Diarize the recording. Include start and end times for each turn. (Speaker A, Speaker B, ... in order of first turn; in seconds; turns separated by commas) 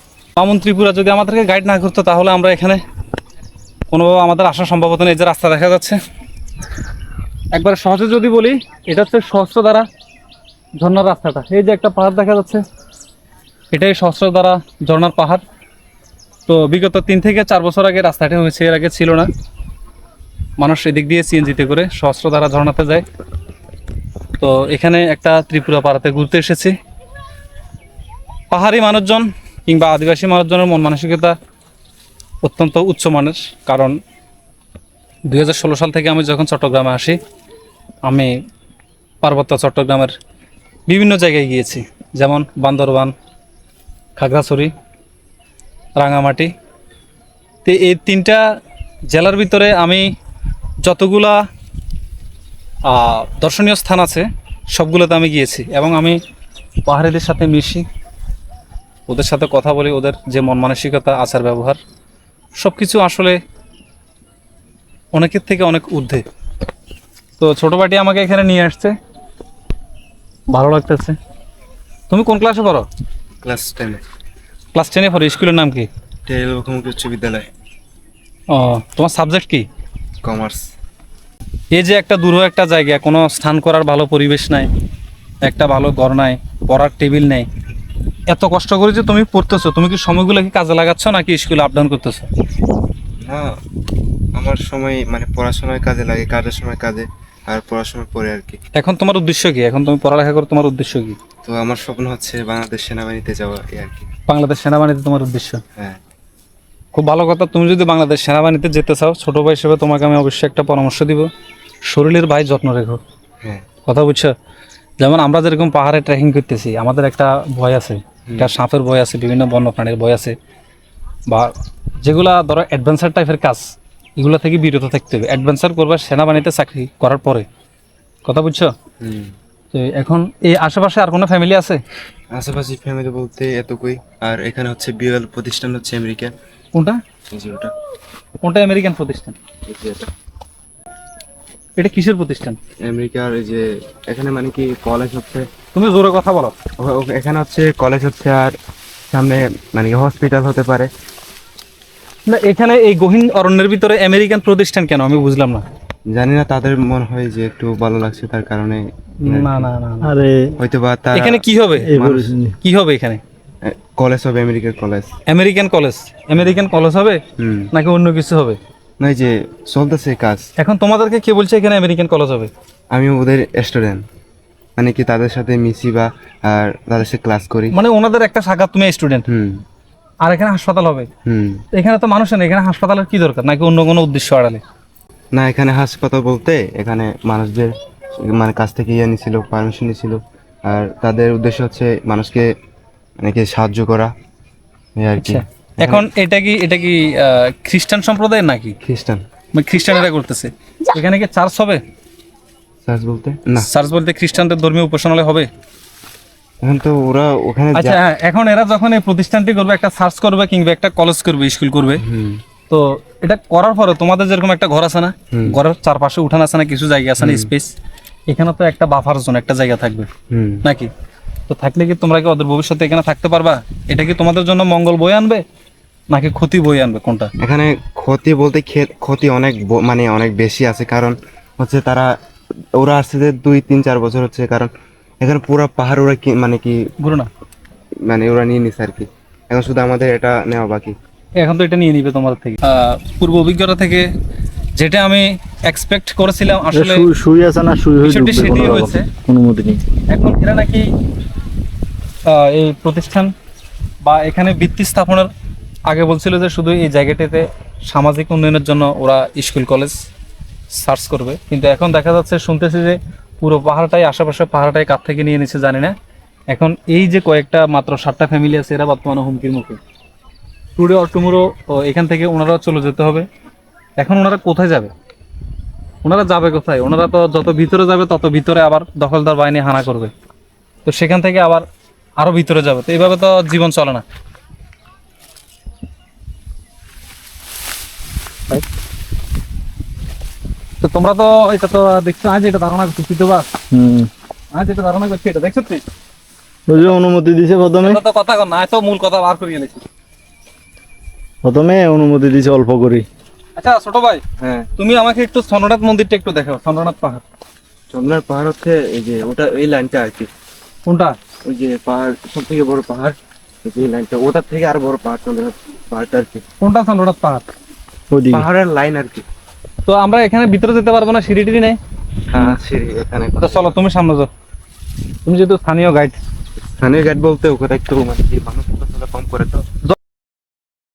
Speaker A: 0.4-2.8, Speaker A: 3.9-6.0, Speaker A: 7.5-9.9, Speaker A: 10.8-12.6, Speaker A: 13.7-15.4, Speaker A: 16.5-19.3, Speaker A: 20.6-23.0, Speaker A: 24.4-26.8, Speaker A: 28.5-31.4, Speaker A: 32.4-34.0, Speaker A: 35.3-37.2, Speaker A: 38.0-38.3, Speaker A: 39.2-40.1, Speaker A: 40.9-43.1, Speaker A: 44.2-44.7, Speaker A: 46.0-46.5, Speaker A: 47.6-48.4, Speaker A: 49.1-50.1, Speaker A: 50.8-51.4, Speaker A: 52.9-56.2, Speaker A: 56.9-57.9, Speaker A: 59.1-61.8, Speaker A: 62.6-63.4, Speaker A: 65.1-66.2, Speaker A: 67.4-68.9, Speaker A: 70.5-71.2, Speaker A: 72.1-72.9, Speaker B: 73.4-74.0, Speaker A: 74.7-75.9, Speaker B: 76.3-77.5, Speaker A: 78.5-79.7, Speaker B: 80.2-80.7, Speaker A: 81.7-84.7, Speaker A: 85.4-87.5, Speaker A: 88.3-92.3, Speaker B: 93.2-93.5, Speaker B: 94.4-98.6, Speaker A: 98.8-101.2, Speaker B: 101.5-104.1, Speaker A: 104.3-105.6, Speaker A: 106.9-111.3, Speaker A: 111.9-113.0, Speaker A: 113.9-114.3, Speaker A: 115.0-120.4, Speaker B: 118.3-118.5, Speaker A: 121.3-123.7, Speaker A: 124.2-127.5, Speaker A: 128.2-128.7, Speaker B: 129.0-129.3, Speaker A: 129.7-131.8, Speaker B: 132.3-136.3, Speaker A: 136.8-137.0, Speaker B: 137.3-137.7, Speaker A: 138.4-139.4, Speaker B: 139.7-140.1, Speaker A: 141.8-142.6, Speaker B: 142.9-145.5, Speaker A: 145.7-146.5, Speaker B: 146.8-148.5, Speaker B: 149.1-150.9, Speaker A: 152.3-155.6, Speaker B: 156.1-159.7, Speaker A: 159.2-160.2, Speaker C: 160.0-160.6, Speaker B: 160.6-161.4, Speaker A: 161.1-161.9, Speaker C: 161.8-162.6, Speaker B: 161.9-162.3, Speaker A: 162.6-163.2, Speaker B: 163.6-165.1, Speaker A: 165.3-167.2, Speaker B: 167.4-167.7, Speaker A: 167.7-168.6, Speaker B: 169.0-170.4, Speaker A: 170.6-172.5, Speaker B: 172.9-174.0, Speaker B: 174.8-177.8, Speaker A: 177.7-179.3, Speaker B: 179.3-179.6, Speaker A: 180.2-181.1, Speaker B: 181.3-181.6, Speaker A: 181.7-184.6, Speaker B: 185.3-192.5, Speaker B: 193.2-194.1, Speaker B: 195.0-196.1, Speaker A: 195.2-198.8, Speaker B: 198.8-199.2, Speaker A: 199.6-201.8, Speaker B: 202.9-203.7, Speaker A: 203.6-205.5, Speaker B: 206.6-208.0, Speaker A: 207.8-212.0, Speaker B: 212.0-212.4, Speaker A: 212.7-217.7, Speaker B: 215.3-215.6, Speaker B: 217.2-217.5, Speaker A: 218.3-220.1, Speaker B: 220.3-220.7, Speaker A: 221.5-225.4, Speaker A: 226.1-227.3, Speaker B: 227.4-232.1, Speaker B: 232.8-234.7, Speaker B: 235.2-236.8, Speaker A: 237.0-237.3, Speaker B: 238.1-240.9, Speaker A: 241.4-244.1, Speaker A: 244.8-247.1, Speaker C: 246.7-249.8, Speaker A: 248.0-249.1, Speaker A: 250.1-250.9, Speaker A: 252.3-253.3, Speaker A: 254.0-255.3, Speaker A: 255.9-260.0, Speaker A: 260.7-265.9, Speaker A: 266.5-269.8, Speaker A: 270.8-273.3, Speaker A: 274.0-274.9, Speaker A: 276.0-280.1, Speaker A: 280.9-281.7, Speaker A: 282.2-284.0, Speaker A: 290.8-293.5, Speaker C: 293.7-294.1, Speaker A: 294.5-295.8, Speaker C: 296.7-298.0, Speaker A: 297.8-299.8, Speaker C: 301.4-303.1, Speaker A: 303.6-304.2, Speaker B: 304.4-304.7, Speaker A: 304.8-307.2, Speaker B: 307.9-310.3, Speaker A: 310.9-311.2, Speaker B: 311.5-316.4, Speaker A: 316.6-317.4, Speaker C: 318.1-318.4, Speaker B: 318.3-319.2, Speaker A: 319.9-321.8, Speaker B: 322.3-323.8, Speaker A: 323.4-324.3, Speaker A: 325.2-326.2, Speaker B: 326.8-329.7